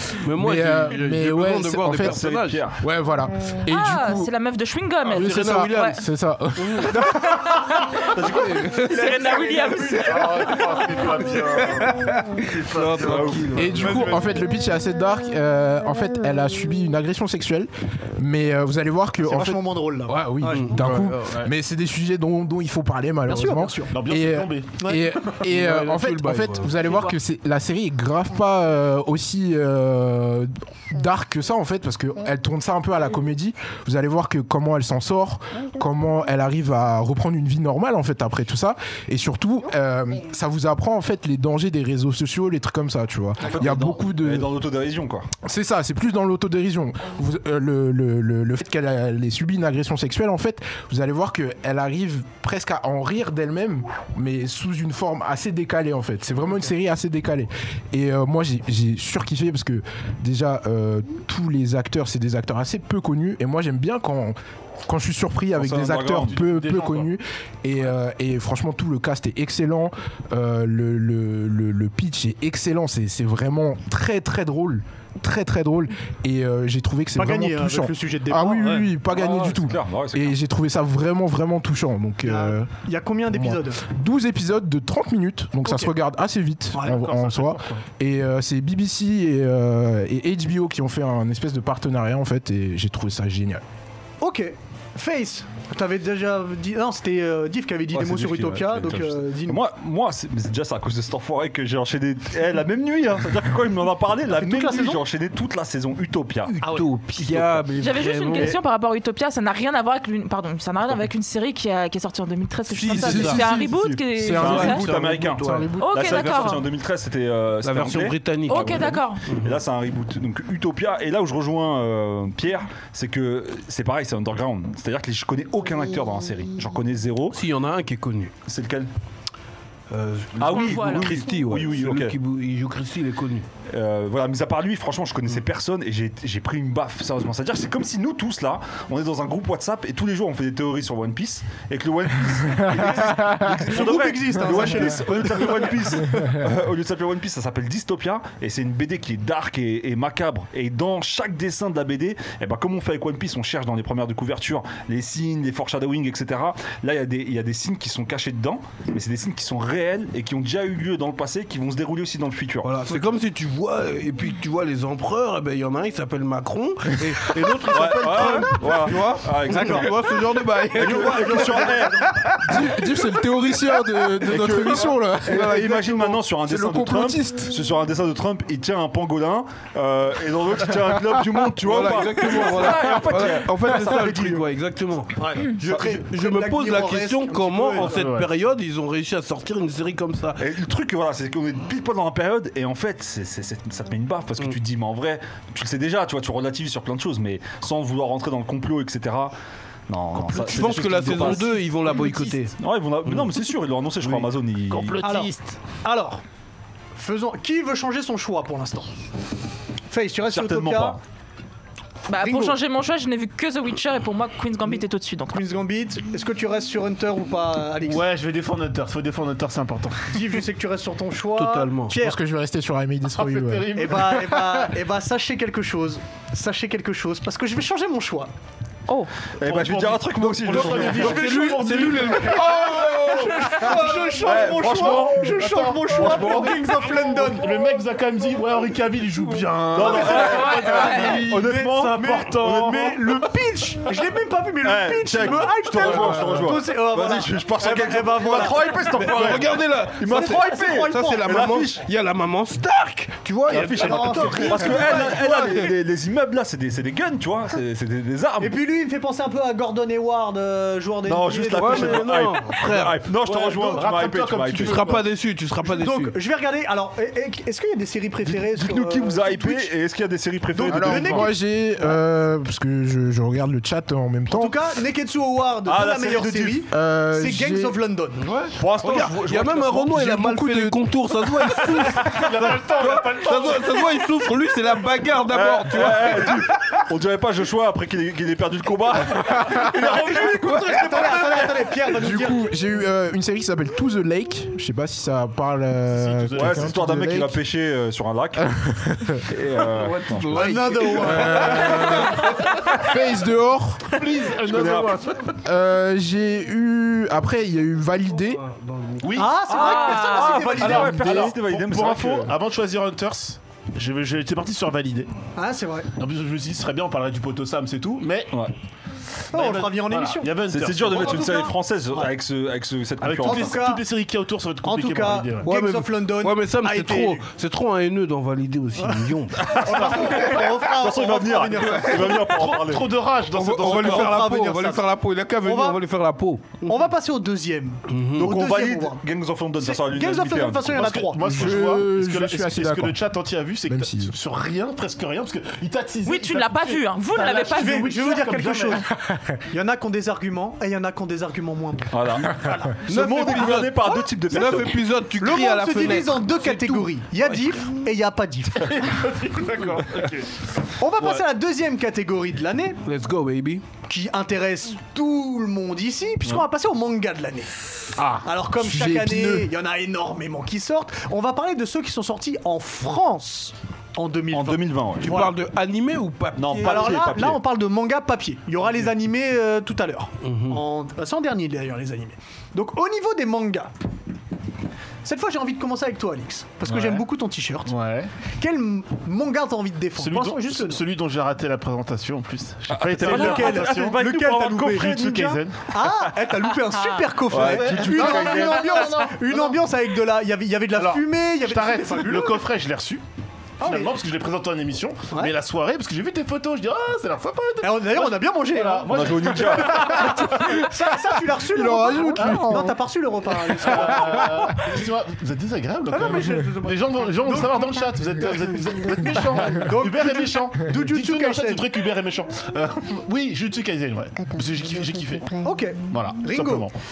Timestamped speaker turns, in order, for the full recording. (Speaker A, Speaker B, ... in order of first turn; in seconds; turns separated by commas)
Speaker A: 0.2-2.7, Speaker B: 0.3-2.2, Speaker C: 2.0-2.8, Speaker B: 2.8-4.3, Speaker D: 3.7-6.0, Speaker A: 5.1-6.0, Speaker B: 5.1-7.5, Speaker A: 6.6-6.9, Speaker D: 6.9-10.7, Speaker C: 8.2-8.5, Speaker A: 8.2-10.7, Speaker E: 9.2-10.0, Speaker F: 9.9-14.1, Speaker A: 11.3-14.2, Speaker C: 13.0-14.3, Speaker B: 13.5-44.5, Speaker E: 19.2-20.7, Speaker A: 20.5-21.4, Speaker E: 23.3-23.9, Speaker F: 23.9-25.4, Speaker E: 24.8-25.0, Speaker A: 25.4-27.0, Speaker D: 26.8-27.1, Speaker C: 43.4-45.3, Speaker B: 45.4-82.7, Speaker C: 65.5-66.4, Speaker F: 66.3-67.1, Speaker E: 77.2-78.9, Speaker C: 79.1-80.4, Speaker E: 82.2-83.8, Speaker B: 83.3-93.6, Speaker F: 86.8-87.8, Speaker E: 94.2-99.6, Speaker C: 97.9-106.6, Speaker E: 104.4-105.0, Speaker A: 106.5-108.6, Speaker C: 107.2-107.7, Speaker D: 107.8-114.8, Speaker A: 112.7-113.6, Speaker B: 112.8-116.2, Speaker C: 114.2-127.4, Speaker A: 114.3-116.6, Speaker D: 115.8-116.6, Speaker A: 117.6-119.6, Speaker D: 118.5-119.2, Speaker A: 127.3-128.3, Speaker C: 128.5-128.9, Speaker A: 129.9-133.5, Speaker C: 130.4-132.2, Speaker D: 130.5-131.2, Speaker C: 133.7-162.7, Speaker B: 142.6-143.6, Speaker E: 143.6-145.8, Speaker A: 162.6-171.9, Speaker C: 167.7-170.2, Speaker E: 169.5-169.9, Speaker C: 170.8-172.1, Speaker E: 170.8-172.2, Speaker B: 172.4-177.6, Speaker C: 174.2-184.4, Speaker A: 175.3-176.2, Speaker A: 181.5-190.4, Speaker E: 185.2-187.9, Speaker F: 187.8-188.3, Speaker C: 190.4-199.3, Speaker C: 199.9-201.6, Speaker A: 200.2-203.4, Speaker C: 202.6-205.1, Speaker A: 204.0-204.3, Speaker F: 204.7-205.6, Speaker E: 205.0-206.2, Speaker E: 207.0-208.9, Speaker E: 209.9-211.0, Speaker C: 210.3-211.0, Speaker D: 212.1-215.4, Speaker E: 212.1-212.6, Speaker E: 215.3-218.0, Speaker F: 217.8-220.2, Speaker E: 220.1-222.2, Speaker A: 221.4-222.0, Speaker B: 221.9-224.4, Speaker F: 223.1-224.4, Speaker E: 223.7-228.3, Speaker C: 229.4-231.4, Speaker F: 229.4-243.0, Speaker A: 230.5-234.2, Speaker E: 230.6-237.5, Speaker C: 234.2-235.4, Speaker C: 235.9-236.6, Speaker C: 239.7-243.3, Speaker E: 239.8-249.4, Speaker C: 244.6-251.8, Speaker A: 248.8-255.8, Speaker E: 250.1-251.4, Speaker C: 253.5-258.6, Speaker E: 253.7-255.4, Speaker E: 258.4-262.1, Speaker C: 261.1-264.9, Speaker A: 261.5-263.1, Speaker F: 263.2-265.0, Speaker A: 264.6-266.2, Speaker E: 265.8-269.7, Speaker C: 268.3-271.3, Speaker E: 270.5-271.9, Speaker B: 270.7-274.6, Speaker E: 274.3-278.2, Speaker C: 275.6-276.6, Speaker B: 276.7-277.8, Speaker A: 278.2-286.8, Speaker C: 278.6-279.8, Speaker B: 279.8-280.8, Speaker F: 282.0-283.9, Speaker C: 285.3-291.6, Speaker E: 289.8-292.5, Speaker B: 291.9-297.4, Speaker F: 295.9-296.8, Speaker C: 296.4-298.5, Speaker B: 298.4-299.2, Speaker C: 299.2-300.6, Speaker A: 299.8-302.3, Speaker E: 300.3-302.4, Speaker B: 301.0-304.0, Speaker F: 303.9-305.4, Speaker C: 304.4-305.0, Speaker B: 305.4-308.4, Speaker A: 308.3-309.3, Speaker F: 309.0-315.1, Speaker E: 309.1-311.3, Speaker D: 309.5-310.6, Speaker C: 309.5-312.4, Speaker E: 315.4-315.9, Speaker F: 316.0-318.4, Speaker F: 319.3-321.5, Speaker E: 319.3-322.1, Speaker C: 320.5-323.7, Speaker F: 323.0-325.5, Speaker E: 323.2-323.8, Speaker E: 324.6-327.2, Speaker A: 325.4-329.6, Speaker E: 328.8-332.6, Speaker C: 329.4-332.9, Speaker F: 329.7-330.4, Speaker A: 331.7-332.1, Speaker F: 332.2-334.2, Speaker A: 333.2-336.9, Speaker E: 333.6-334.8, Speaker E: 335.4-335.8, Speaker E: 336.6-339.0, Speaker A: 337.9-338.3, Speaker C: 338.2-341.0, Speaker E: 339.6-341.4, Speaker F: 340.8-348.9, Speaker B: 341.2-343.0, Speaker B: 343.7-344.1, Speaker D: 346.1-348.0, Speaker E: 347.5-348.9, Speaker E: 349.4-352.7, Speaker C: 351.9-354.8, Speaker A: 352.9-357.6, Speaker E: 355.2-358.9, Speaker F: 358.6-360.4, Speaker E: 360.8-362.8, Speaker A: 362.9-363.7, Speaker E: 363.8-367.6, Speaker C: 368.0-368.2, Speaker E: 368.2-375.3, Speaker B: 368.6-369.5, Speaker C: 374.3-375.2, Speaker A: 375.0-377.1, Speaker C: 376.4-377.4, Speaker E: 376.6-383.7, Speaker A: 380.2-380.6, Speaker E: 385.0-387.7, Speaker F: 386.7-387.0, Speaker F: 387.7-388.1, Speaker E: 388.4-390.8, Speaker F: 390.0-394.0, Speaker C: 392.7-395.3, Speaker E: 392.9-402.4, Speaker F: 394.7-395.6, Speaker C: 397.3-399.0, Speaker F: 397.3-399.6, Speaker F: 400.8-403.0, Speaker E: 403.6-403.9, Speaker F: 403.6-410.6, Speaker E: 407.6-414.5, Speaker C: 408.9-410.3, Speaker B: 411.4-412.8, Speaker F: 413.4-426.8, Speaker E: 415.9-417.8, Speaker E: 419.0-421.7, Speaker E: 425.4-426.7